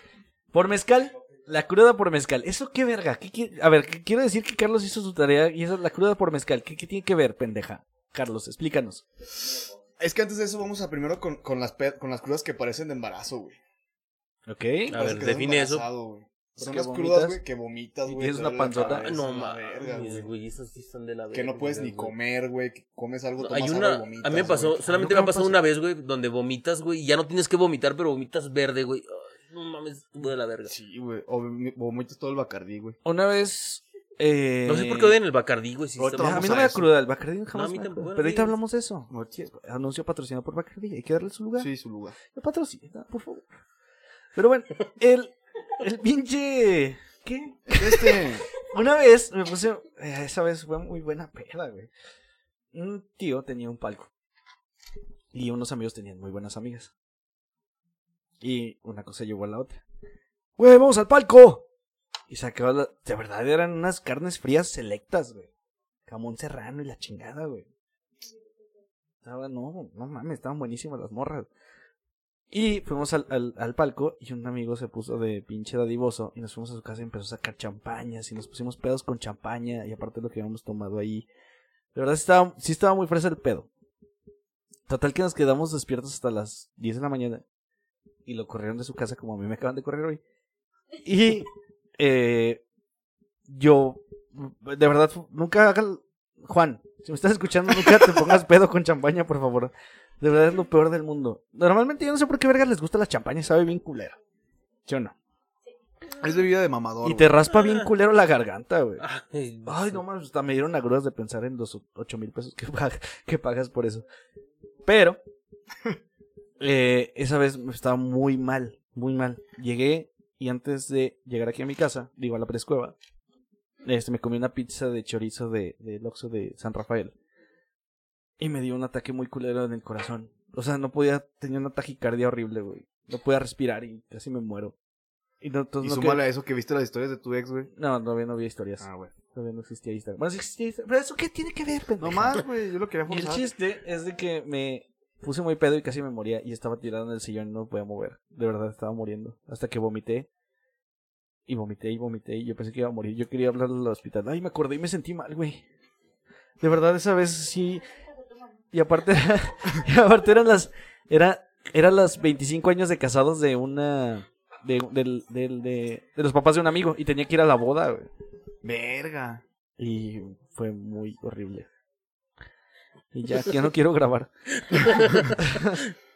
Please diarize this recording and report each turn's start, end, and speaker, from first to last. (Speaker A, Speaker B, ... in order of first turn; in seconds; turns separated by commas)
Speaker A: 0.5-9.0, Speaker B: 10.0-13.6, Speaker A: 14.5-15.0, Speaker C: 14.9-15.9, Speaker B: 14.9-20.3, Speaker A: 16.6-17.4, Speaker A: 18.1-19.1, Speaker C: 18.8-22.1, Speaker B: 21.3-25.5, Speaker C: 23.4-30.7, Speaker A: 24.9-25.5, Speaker B: 30.7-33.0, Speaker A: 33.0-35.2, Speaker C: 34.7-36.8, Speaker B: 36.0-36.9, Speaker A: 36.2-41.7, Speaker C: 37.5-38.5, Speaker B: 41.6-42.2, Speaker A: 42.3-43.5, Speaker A: 44.4-51.9, Speaker B: 47.7-48.5, Speaker A: 52.7-54.1, Speaker A: 55.3-56.9, Speaker A: 58.4-59.8, Speaker A: 60.6-61.6, Speaker A: 62.3-65.5, Speaker A: 66.1-67.7, Speaker A: 69.2-71.5, Speaker A: 72.5-81.3, Speaker A: 81.9-83.7, Speaker A: 84.9-87.4, Speaker A: 88.3-90.2, Speaker A: 91.0-92.6, Speaker A: 93.5-104.2, Speaker A: 104.9-105.1, Speaker B: 106.2-107.4, Speaker A: 107.0-109.0, Speaker C: 109.0-110.0, Speaker A: 109.7-114.0, Speaker A: 114.8-115.2, Speaker A: 116.6-123.0, Speaker A: 123.8-127.1, Speaker A: 128.4-134.7, Speaker A: 135.4-136.2, Speaker B: 135.8-137.7, Speaker A: 137.8-142.4, Speaker B: 138.8-139.1, Speaker B: 142.0-143.5, Speaker A: 143.1-150.3, Speaker A: 151.5-155.6, Speaker A: 156.6-157.8, Speaker A: 158.7-168.1, Speaker B: 168.6-169.4, Speaker A: 169.8-171.7, Speaker A: 173.1-174.3, Speaker B: 174.9-175.3, Speaker A: 175.4-175.8